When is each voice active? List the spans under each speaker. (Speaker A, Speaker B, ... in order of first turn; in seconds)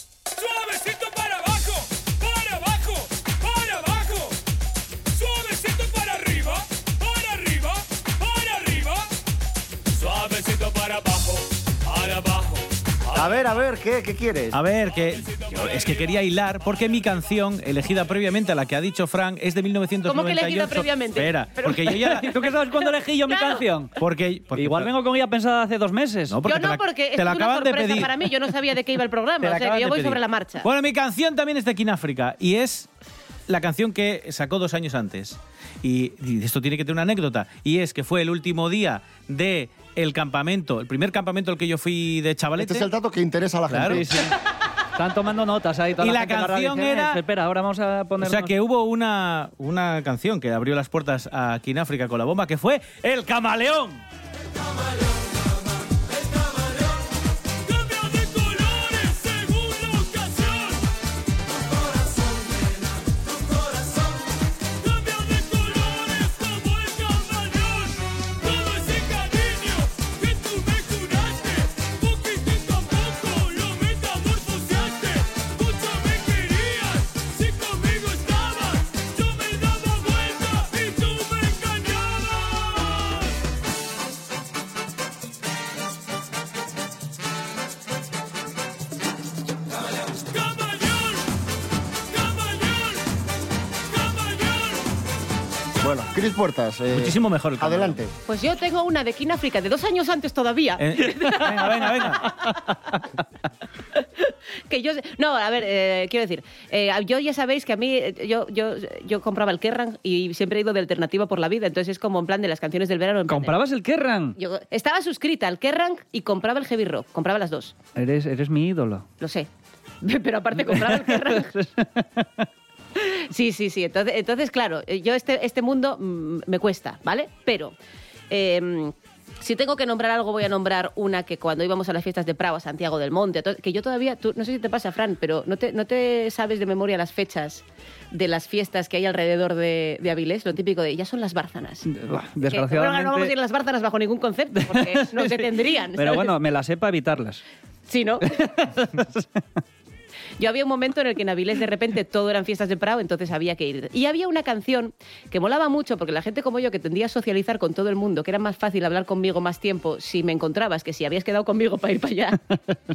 Speaker A: 0.3-4.4, 5.1-9.1, 9.9-13.6, 14.9-16.3, 57.6-60.8, 64.8-83.3, 90.2-91.3, 92.1-93.0, 93.9-94.9
Speaker B: 13.1-14.6, 42.6-44.1, 95.8-98.1
Speaker C: 14.5-22.3, 24.0-24.9, 26.3-28.3, 29.4-32.9, 33.5-42.9, 43.7-44.0, 46.0-47.2, 48.2-54.0, 96.9-98.0, 100.8-102.7
Speaker D: 20.1-23.6, 26.4-30.7, 98.3-102.3, 104.0-113.6, 114.4-117.8, 119.2-119.5, 120.0-121.5, 123.0-127.7, 128.3-141.9, 142.5-146.3, 147.9-148.4, 150.4-162.6
Speaker E: 22.2-23.9, 24.6-26.4, 43.7-44.3, 45.0-48.5, 113.3-114.4, 118.0-119.0, 120.6-122.5, 141.9-143.3, 144.6-147.4, 148.3-149.4